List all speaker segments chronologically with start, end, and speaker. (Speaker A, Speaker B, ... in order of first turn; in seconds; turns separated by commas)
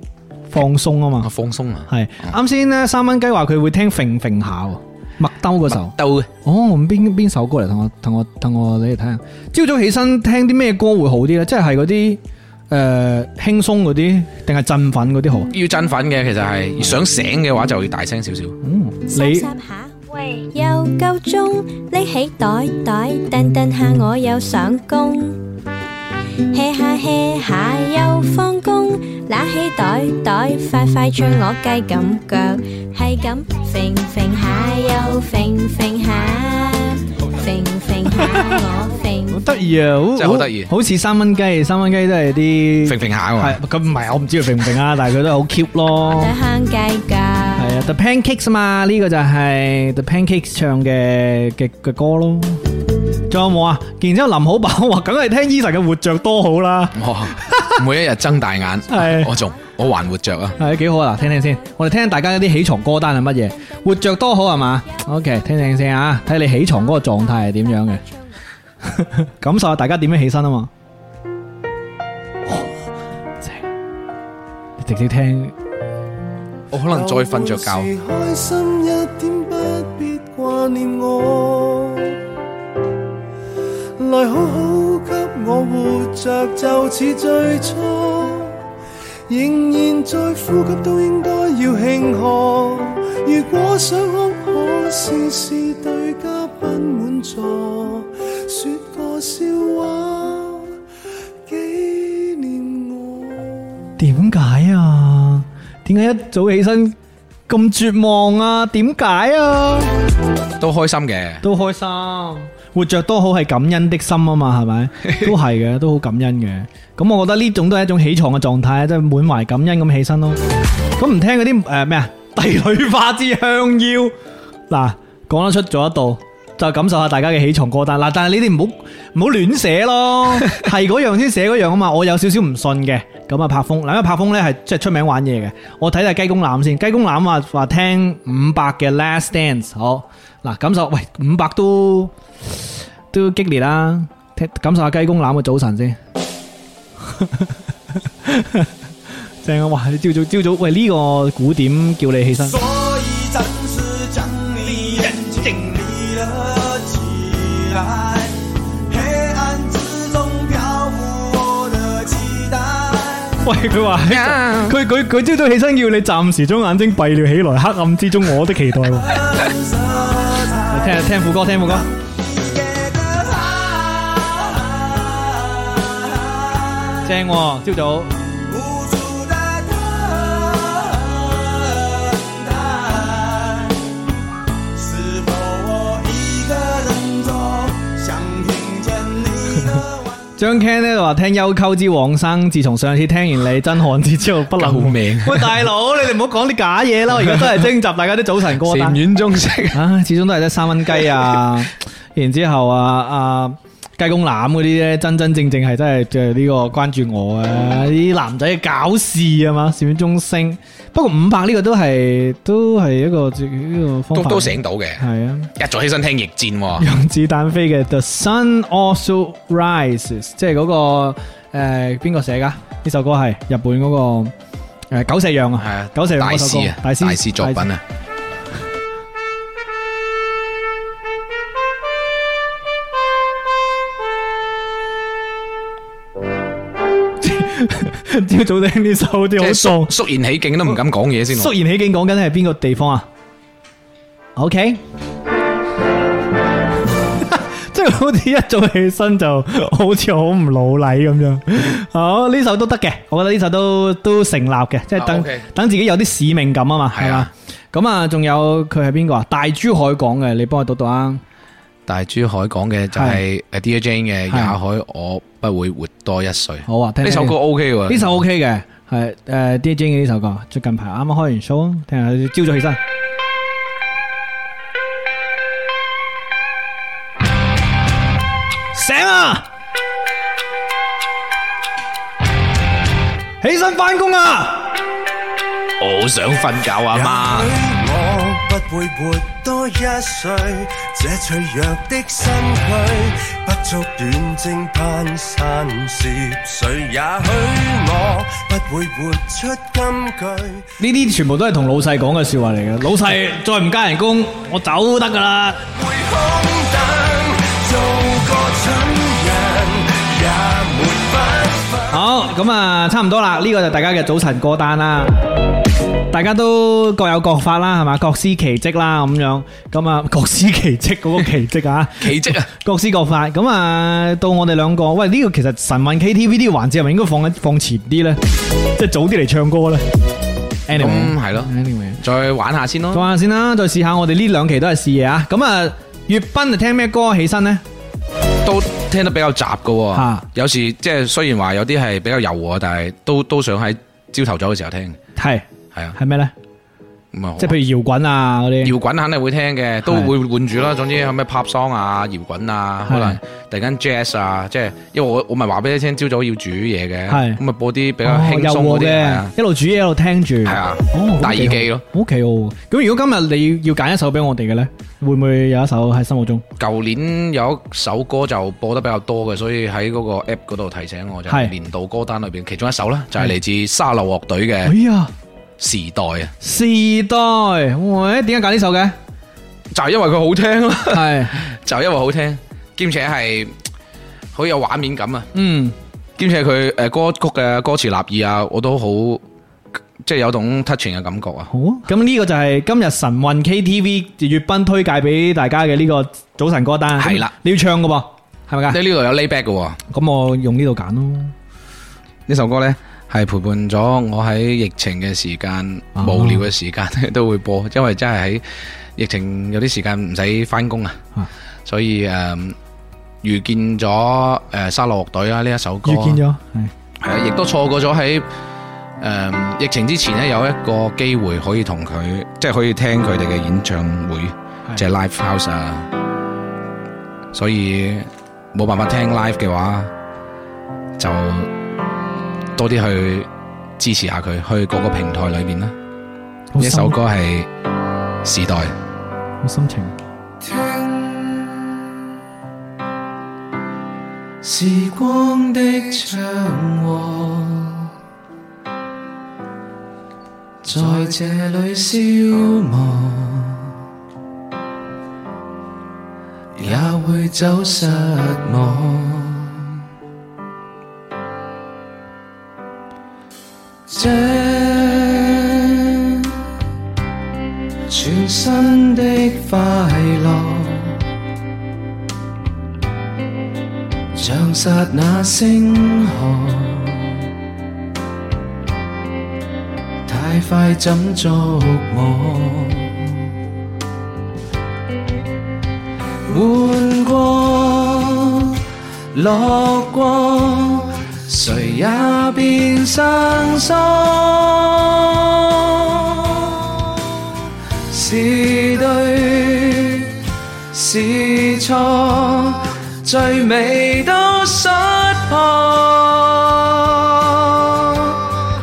Speaker A: 0.5-1.3, Speaker B: 1.2-1.9, Speaker A: 1.9-15.5, Speaker B: 5.7-6.3, Speaker B: 15.5-18.6, Speaker A: 18.6-19.5, Speaker C: 19.1-25.4, Speaker C: 26.5-39.4, Speaker A: 39.3-46.3, Speaker B: 40.2-40.7, Speaker B: 42.8-43.6, Speaker C: 46.1-47.8, Speaker A: 47.6-52.6, Speaker A: 53.3-57.8, Speaker B: 56.9-60.6, Speaker A: 58.9-59.3, Speaker A: 60.6-68.0, Speaker A: 68.8-70.7, Speaker A: 74.8-75.5, Speaker B: 76.7-77.9, Speaker D: 76.9-82.2, Speaker D: 84.0-88.6, Speaker D: 89.3-100.7, Speaker D: 101.5-103.9, Speaker A: 104.0-107.0, Speaker A: 107.5-109.9, Speaker B: 110.6-111.4, Speaker A: 111.4-120.4, Speaker A: 121.0-124.1, Speaker A: 124.7-142.1, Speaker A: 143.1-146.0, Speaker A: 147.1-147.5, Speaker A: 148.2-148.7, Speaker A: 149.4-152.6, Speaker D: 152.4-163.4, Speaker A: 155.0-155.6, Speaker A: 163.4-169.2, Speaker B: 164.1-164.8, Speaker D: 169.0-177.0, Speaker A: 170.7-171.9, Speaker A: 177.0-178.1, Speaker D: 178.4-183.9, Speaker D: 184.7-190.2, Speaker A: 190.4-199.0, Speaker B: 194.6-195.6, Speaker B: 198.6-199.8, Speaker A: 199.7-215.5, Speaker B: 214.1-215.0, Speaker B: 215.5-216.8, Speaker A: 216.8-224.3, Speaker A: 224.9-227.7, Speaker B: 225.6-227.8, Speaker A: 237.2-239.9, Speaker B: 239.4-241.5, Speaker A: 241.3-243.0, Speaker A: 244.3-244.8, Speaker A: 247.2-261.2, Speaker B: 254.9-255.4, Speaker B: 256.9-257.3, Speaker B: 261.9-268.1, Speaker A: 262.9-263.2, Speaker A: 264.3-264.6, Speaker A: 266.6-272.8, Speaker A: 278.7-279.5, Speaker A: 283.4-284.7, Speaker B: 285.8-287.5, Speaker D: 286.9-300.7, Speaker A: 300.8-305.6, Speaker D: 305.7-312.0, Speaker A: 311.9-315.2, Speaker A: 316.1-329.8, Speaker B: 322.0-322.5, Speaker A: 330.7-332.0, Speaker B: 330.7-333.1, Speaker A: 332.9-337.6, Speaker B: 338.4-345.0, Speaker A: 339.9-340.2, Speaker A: 345.2-346.3, Speaker B: 347.1-347.6, Speaker A: 347.4-348.7, Speaker B: 348.6-359.3, Speaker A: 349.8-350.1, Speaker A: 352.9-353.2, Speaker A: 357.1-357.4, Speaker A: 358.0-366.4, Speaker B: 360.4-361.8, Speaker B: 366.6-374.8, Speaker A: 374.6-375.1, Speaker B: 375.6-376.3, Speaker A: 376.4-378.9, Speaker B: 379.7-383.5, Speaker A: 380.9-381.4, Speaker B: 384.3-385.3, Speaker A: 385.3-385.7, Speaker B: 386.2-389.2, Speaker B: 390.0-391.5, Speaker A: 391.5-398.8, Speaker B: 397.0-397.3, Speaker B: 398.7-399.8, Speaker A: 399.9-401.3, Speaker B: 402.3-408.4, Speaker A: 406.0-406.4, Speaker B: 408.9-411.0, Speaker B: 411.6-412.6, Speaker B: 413.2-416.2, Speaker A: 415.8-416.7, Speaker B: 417.0-418.3, Speaker B: 419.0-425.9, Speaker B: 427.3-429.9, Speaker B: 431.0-431.5, Speaker B: 432.6-435.7, Speaker A: 436.5-437.0, Speaker B: 436.6-437.5, Speaker B: 438.2-438.7, Speaker A: 439.4-439.9, Speaker E: 440.4-441.5, Speaker E: 444.4-447.9, Speaker B: 450.7-451.1, Speaker E: 450.7-452.8, Speaker B: 452.7-453.6, Speaker B: 456.6-459.6, Speaker E: 456.9-457.4, Speaker E: 463.9-465.6, Speaker E: 467.9-470.9, Speaker E: 474.2-476.9, Speaker B: 474.2-476.8, Speaker B: 480.1-482.9, Speaker E: 480.6-482.0, Speaker E: 486.3-488.6, Speaker E: 489.1-496.8, Speaker E: 497.9-500.2, Speaker E: 500.7-508.2